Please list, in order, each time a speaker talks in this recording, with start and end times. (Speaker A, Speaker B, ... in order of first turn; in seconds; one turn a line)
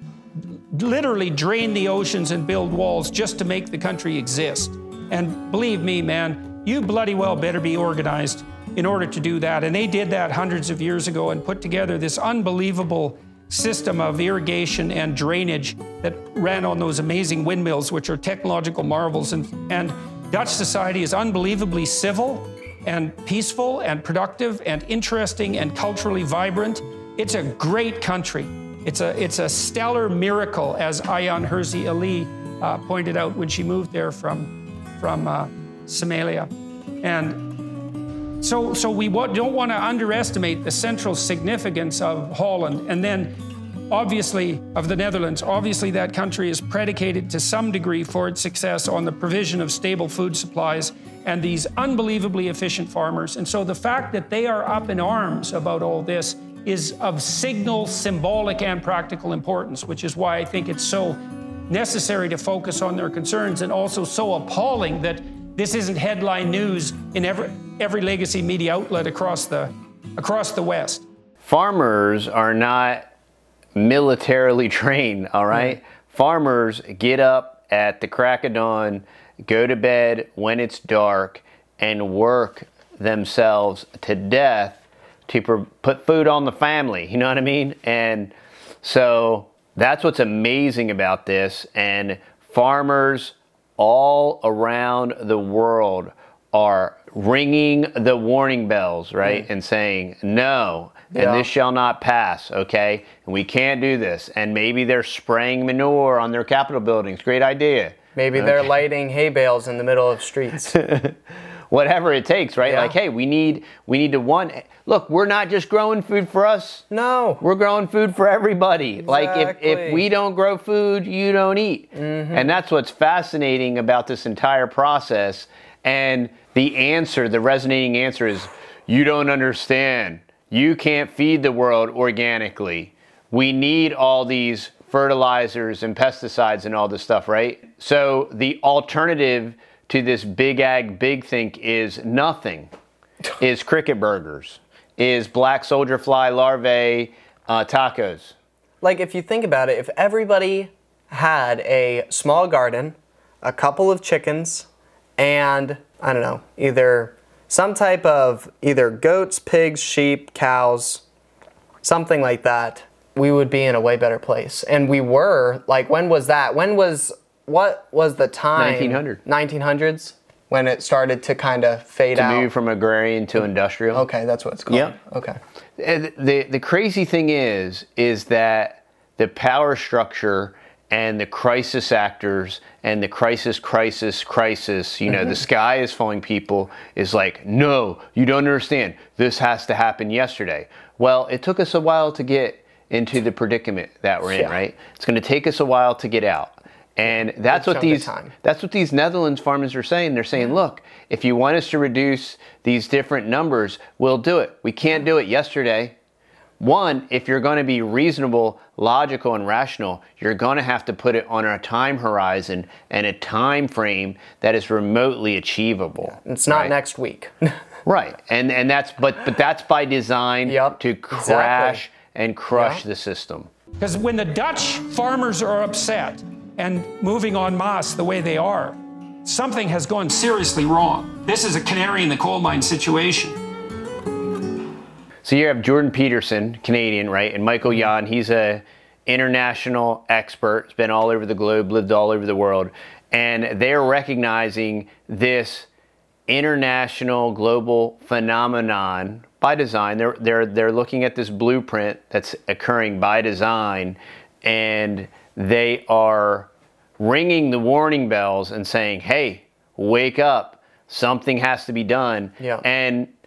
Speaker A: 0.4-36.5
Speaker A: 37.0-37.5
Speaker A: 38.4-43.3
Speaker A: 43.9-71.0
Speaker B: 71.4-73.0
Speaker B: 73.8-108.7
Speaker C: 101.1-101.5
Speaker C: 108.2-110.8
Speaker B: 110.7-111.2
Speaker B: 111.7-116.8
Speaker C: 112.6-112.9
Speaker C: 116.9-117.4
Speaker B: 117.4-142.7
Speaker C: 119.0-120.0
Speaker C: 121.9-122.5
Speaker B: 143.4-148.3
Speaker C: 148.8-161.0
Speaker C: 161.8-172.5
Speaker B: 168.6-169.2
Speaker B: 172.1-174.1
Speaker C: 173.9-175.4
Speaker B: 175.8-205.9
Speaker C: 197.2-198.3
Speaker B: 206.6-216.7
Speaker C: 216.2-217.6
Speaker B: 217.8-223.5
Speaker C: 220.4-221.8
Speaker C: 222.5-222.8
Speaker A: 223.8-233.4
Speaker B: 235.2-245.7
Speaker B: 246.3-263.1